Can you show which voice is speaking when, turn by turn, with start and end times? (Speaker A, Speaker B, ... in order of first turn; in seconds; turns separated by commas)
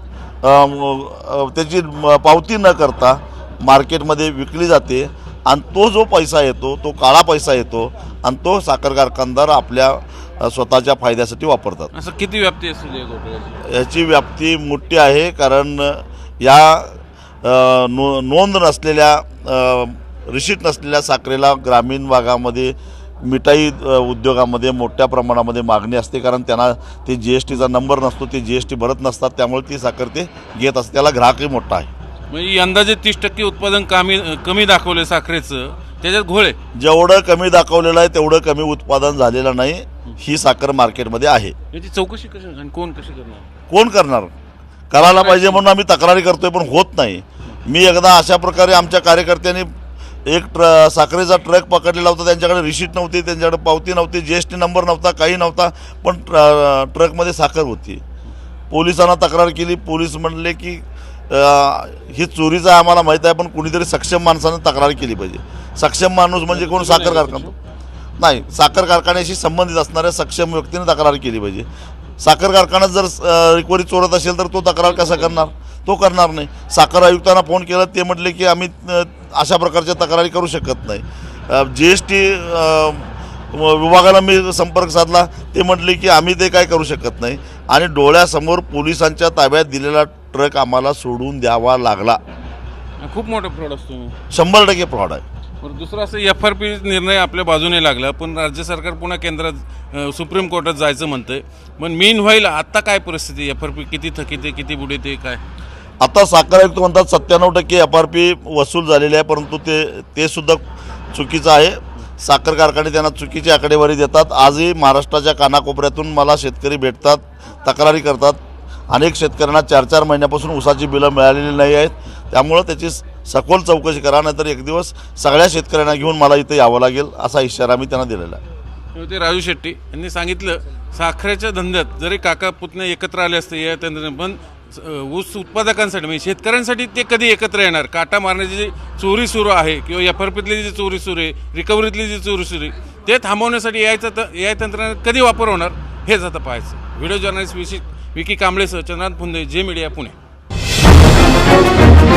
Speaker A: 0.4-11.9, Speaker B: 11.9-13.6, Speaker A: 13.6-31.9, Speaker B: 32.3-36.6, Speaker A: 36.7-41.5, Speaker B: 41.7-43.5, Speaker A: 43.7-44.3, Speaker A: 44.9-49.7, Speaker B: 45.0-45.6, Speaker A: 50.3-58.0, Speaker A: 58.7-67.5, Speaker B: 66.5-67.5, Speaker A: 68.2-71.7, Speaker A: 72.2-92.2, Speaker B: 74.8-75.5, Speaker B: 93.0-94.1, Speaker A: 94.3-95.2, Speaker B: 95.6-105.4, Speaker A: 106.0-118.4, Speaker A: 118.9-128.4, Speaker B: 128.9-150.2